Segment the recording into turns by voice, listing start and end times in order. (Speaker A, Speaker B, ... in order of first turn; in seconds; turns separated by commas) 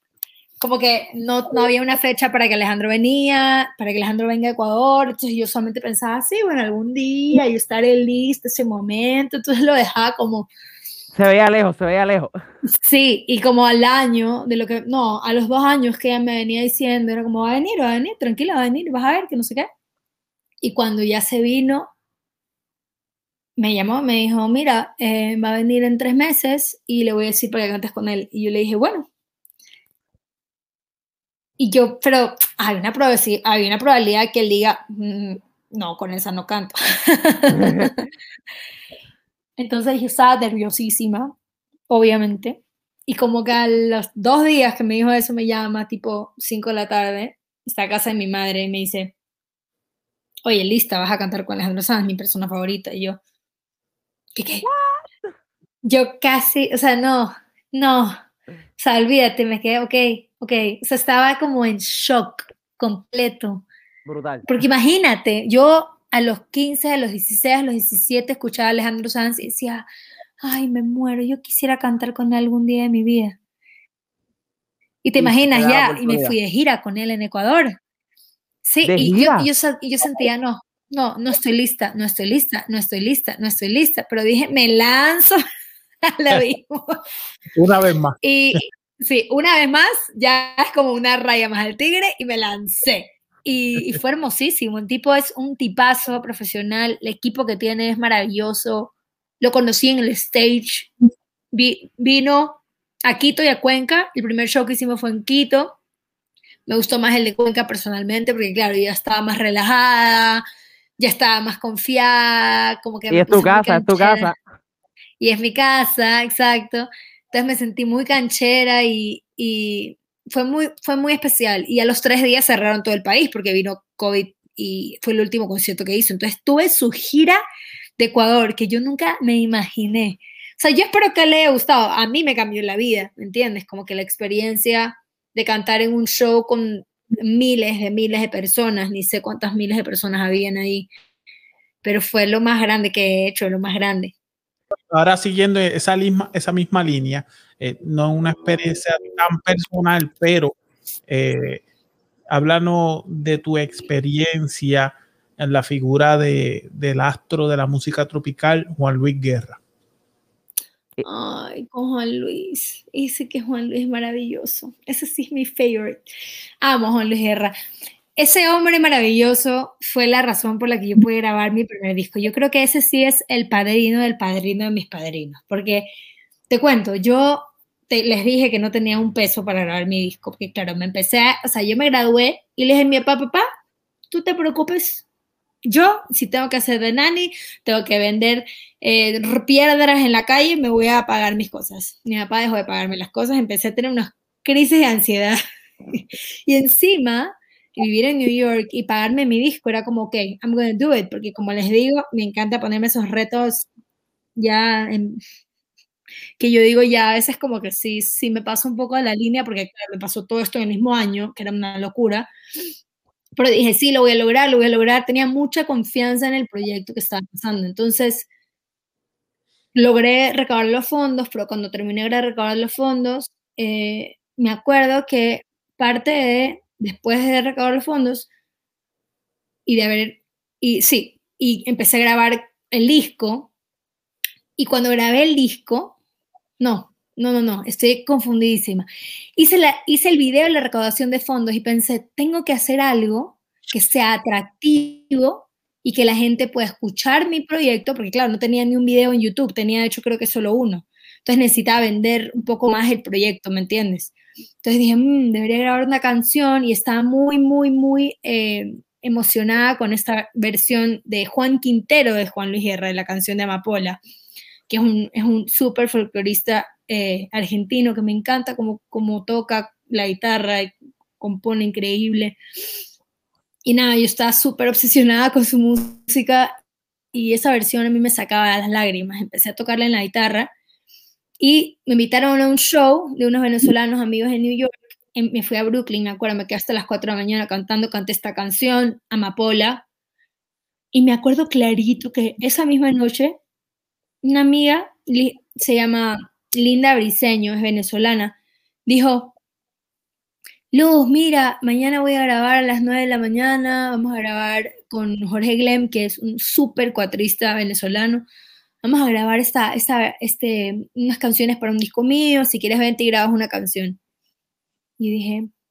Speaker A: 0.6-10.5, Speaker B: 11.1-12.3, Speaker A: 12.8-19.7, Speaker A: 20.6-21.9, Speaker A: 23.6-29.1, Speaker A: 31.6-38.1, Speaker B: 37.6-37.9, Speaker A: 39.6-41.4, Speaker A: 41.9-49.1, Speaker A: 50.5-53.2, Speaker A: 54.4-54.7, Speaker B: 54.6-55.3, Speaker A: 55.8-58.1, Speaker A: 58.8-63.7, Speaker B: 64.0-64.5, Speaker A: 64.5-69.9, Speaker A: 70.4-73.4, Speaker A: 75.0-77.8, Speaker B: 75.2-76.4, Speaker A: 78.6-85.4, Speaker B: 78.8-79.5, Speaker A: 86.1-87.0, Speaker C: 87.5-88.6, Speaker A: 88.2-100.9, Speaker A: 101.5-105.8, Speaker A: 106.7-110.4, Speaker A: 111.0-114.3, Speaker B: 113.1-114.4, Speaker A: 115.2-127.4, Speaker A: 128.0-140.9, Speaker A: 141.8-144.2, Speaker C: 144.9-151.6, Speaker C: 152.3-159.6, Speaker A: 161.1-166.0, Speaker A: 166.6-167.5, Speaker A: 168.2-175.9, Speaker A: 176.5-183.5, Speaker A: 184.1-185.0, Speaker A: 185.7-195.4, Speaker A: 195.9-203.7, Speaker A: 204.4-205.2, Speaker A: 206.4-212.3, Speaker A: 213.4-218.3, Speaker A: 219.8-228.3, Speaker A: 229.7-233.5, Speaker A: 234.6-235.9, Speaker A: 236.6-254.1, Speaker A: 254.6-264.0, Speaker A: 264.7-272.4, Speaker A: 273.7-276.5, Speaker A: 277.1-280.5, Speaker A: 281.4-289.8, Speaker A: 290.9-293.4, Speaker A: 294.2-299.3, Speaker A: 300.7-308.3, Speaker A: 308.8-314.0, Speaker A: 315.0-315.5